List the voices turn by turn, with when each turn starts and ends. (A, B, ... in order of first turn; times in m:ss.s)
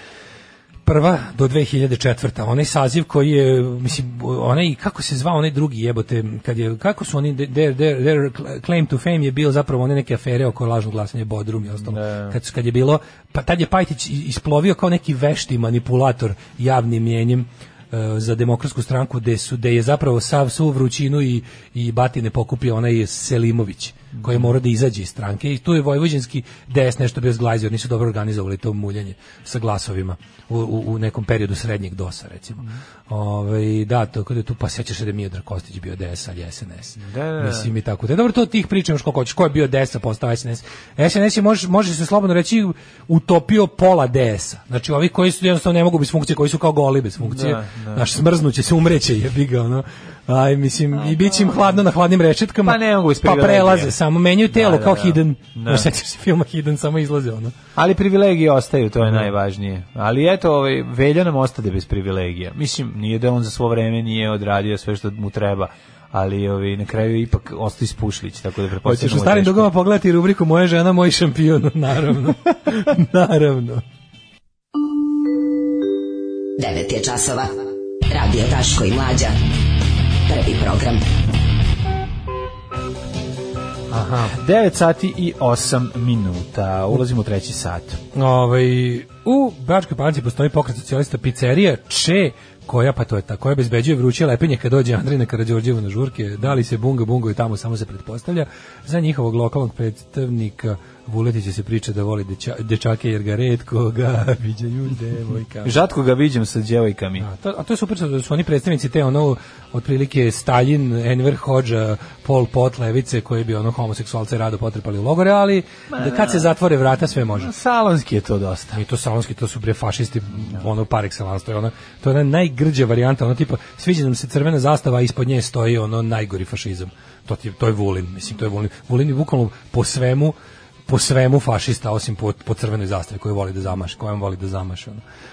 0:00.8-0:57.5 A
0:11.8-0:12.4 B
0:24.2-0:24.5 B
0:37.0-0:37.7 B
0:47.2-0:48.0 B
0:50.9-0:51.8 B
0:52.6-0:54.0 B
0:54.5-0:55.9 B
0:57.8-1:09.7 B
1:08.8-1:13.8 A
1:16.6-1:17.5 C
1:18.1-1:19.3 C
1:20.3-1:21.0 C
1:23.9-1:24.3 A
1:24.3-1:28.0 B
1:28.1-1:45.8 A
1:45.6-1:47.2 B
1:47.2-1:57.5 A
1:55.9-1:56.5 B
1:57.3-1:58.8 B
1:58.7-2:10.4 A
2:10.9-2:15.0 A